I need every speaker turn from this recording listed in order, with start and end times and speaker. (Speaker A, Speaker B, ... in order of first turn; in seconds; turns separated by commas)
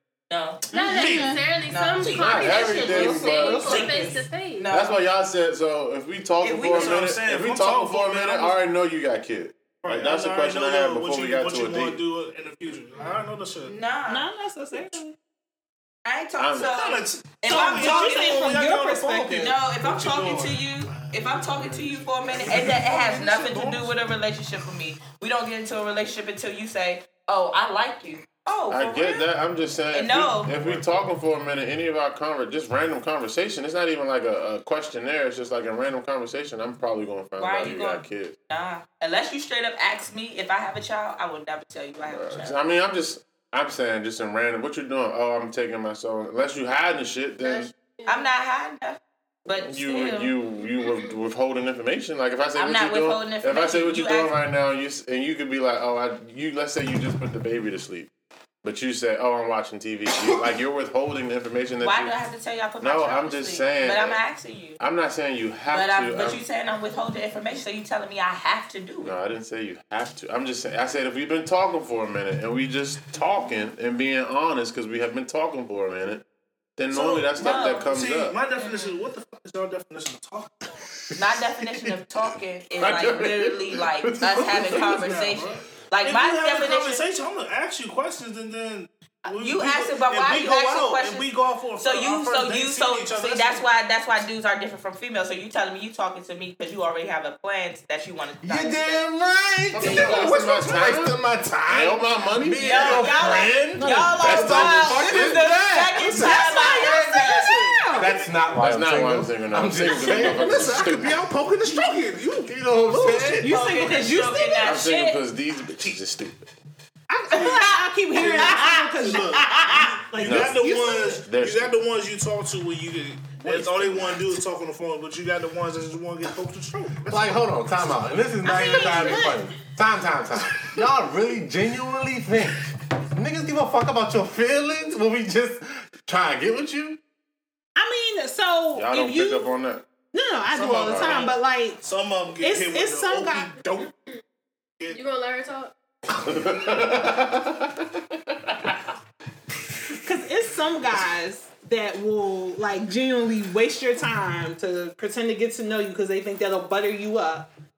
Speaker A: 0.3-0.6, Speaker B: 0.7-4.7, Speaker C: 0.7-1.4, Speaker D: 0.9-1.4, Speaker A: 1.6-5.0, Speaker E: 2.0-3.8, Speaker D: 2.9-4.2, Speaker E: 4.7-12.0, Speaker A: 6.4-7.1, Speaker C: 6.7-8.6, Speaker C: 9.8-13.8, Speaker A: 13.7-14.2, Speaker D: 14.1-15.1, Speaker A: 16.1-18.6, Speaker E: 16.4-16.7, Speaker C: 16.5-24.0, Speaker D: 17.4-19.5, Speaker A: 19.3-29.3, Speaker E: 28.7-38.3, Speaker A: 29.9-30.5, Speaker A: 37.4-42.5, Speaker E: 42.1-47.7, Speaker B: 47.4-48.3, Speaker A: 48.0-50.3, Speaker E: 49.6-58.1, Speaker B: 50.8-51.1, Speaker A: 52.5-54.4, Speaker E: 58.6-62.1, Speaker A: 61.8-64.8, Speaker E: 62.8-64.2, Speaker E: 64.8-66.4, Speaker A: 65.7-69.1, Speaker E: 69.0-76.2, Speaker E: 76.8-78.4, Speaker C: 76.9-80.7, Speaker A: 77.4-77.9, Speaker A: 78.6-78.9, Speaker A: 81.2-87.0, Speaker E: 82.8-84.9, Speaker C: 84.2-93.7, Speaker A: 89.2-91.3, Speaker A: 91.8-99.1, Speaker F: 98.4-106.0, Speaker E: 99.7-103.3, Speaker A: 102.6-107.8, Speaker C: 103.3-103.8, Speaker E: 104.1-105.4, Speaker D: 106.0-108.2, Speaker C: 106.0-108.3, Speaker F: 108.0-110.9, Speaker E: 108.6-111.2, Speaker C: 109.9-113.5, Speaker F: 111.7-113.5, Speaker D: 112.9-114.8, Speaker A: 113.5-115.2, Speaker E: 114.6-116.4, Speaker D: 117.1-121.2, Speaker C: 117.3-117.6, Speaker C: 118.1-127.9, Speaker E: 120.2-121.7, Speaker E: 123.4-124.2, Speaker F: 127.1-137.0, Speaker D: 128.4-129.6, Speaker D: 137.8-139.6, Speaker E: 138.7-139.9, Speaker D: 140.1-141.8, Speaker C: 140.5-143.6, Speaker E: 140.7-141.3, Speaker D: 142.4-143.9, Speaker B: 144.9-145.7, Speaker E: 146.1-147.8, Speaker E: 148.4-148.8, Speaker D: 150.0-157.5